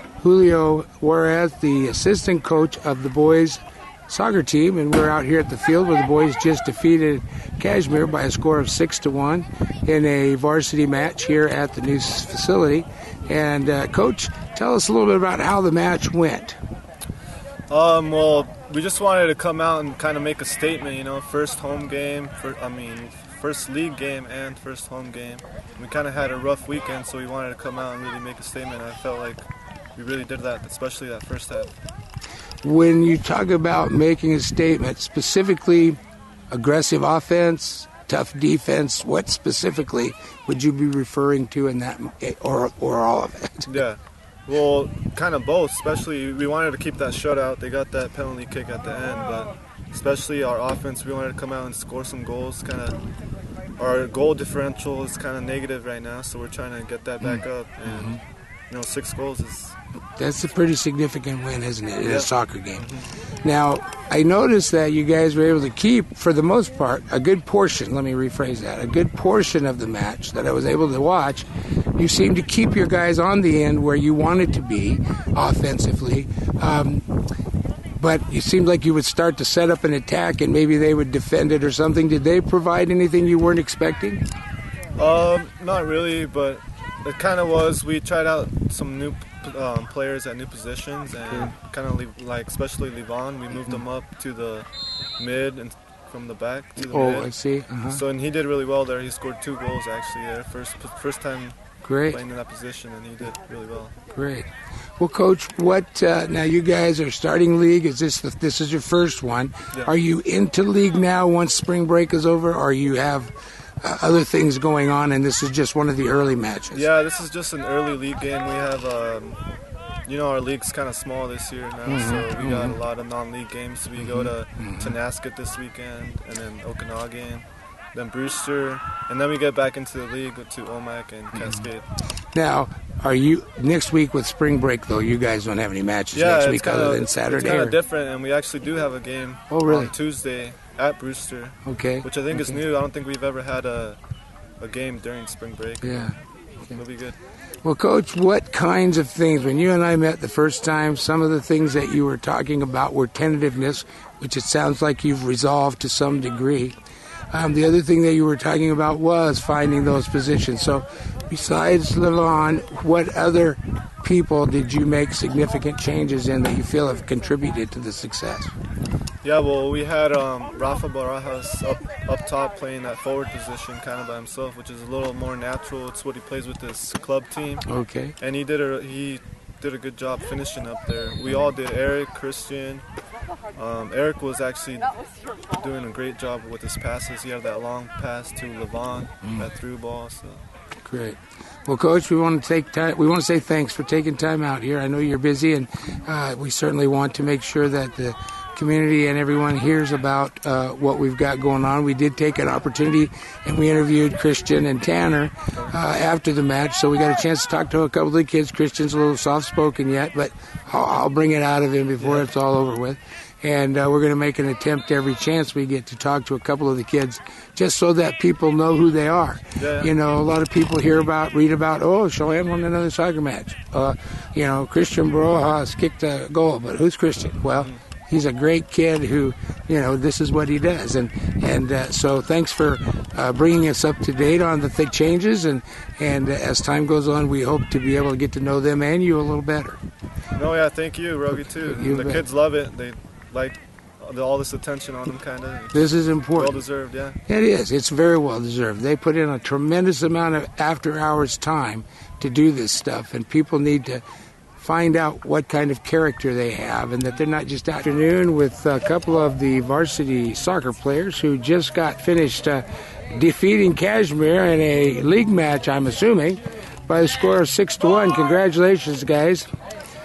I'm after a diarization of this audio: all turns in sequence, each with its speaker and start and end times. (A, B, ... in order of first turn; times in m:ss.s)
0:00.2-0:16.6 A
0:17.7-0:31.7 B
0:32.6-0:36.0 A
0:36.5-0:43.8 A
0:43.7-0:53.0 B
0:53.8-0:59.8 B
0:57.9-0:58.2 A
1:00.2-1:17.0 A
1:02.0-1:03.1 B
1:18.0-1:24.2 A
1:25.0-1:34.7 B
1:31.3-1:31.5 A
1:35.2-1:37.3 B
1:36.8-1:38.0 A
1:37.9-1:43.9 B
1:41.8-1:42.2 A
1:44.1-1:56.8 A
1:56.7-1:59.4 B
2:00.0-2:11.8 B
2:01.9-2:02.8 A
2:04.0-2:04.9 A
2:11.3-2:11.6 A
2:12.3-2:17.8 A
2:16.1-2:24.0 B
2:19.5-2:19.9 A
2:21.6-2:22.6 A
2:24.6-2:26.2 B
2:25.8-2:26.1 A
2:26.7-2:27.2 B
2:27.6-2:36.8 A
2:37.3-2:48.5 A
2:49.2-3:02.8 B
2:57.7-2:58.1 A
3:03.5-3:04.9 B
3:05.5-3:10.4 B
3:10.8-3:59.8 A
3:32.0-3:32.2 B
3:39.6-3:39.9 B
4:00.3-4:07.2 B
4:01.6-4:02.2 A
4:05.7-4:06.6 A
4:07.3-4:14.0 A
4:14.6-4:29.5 A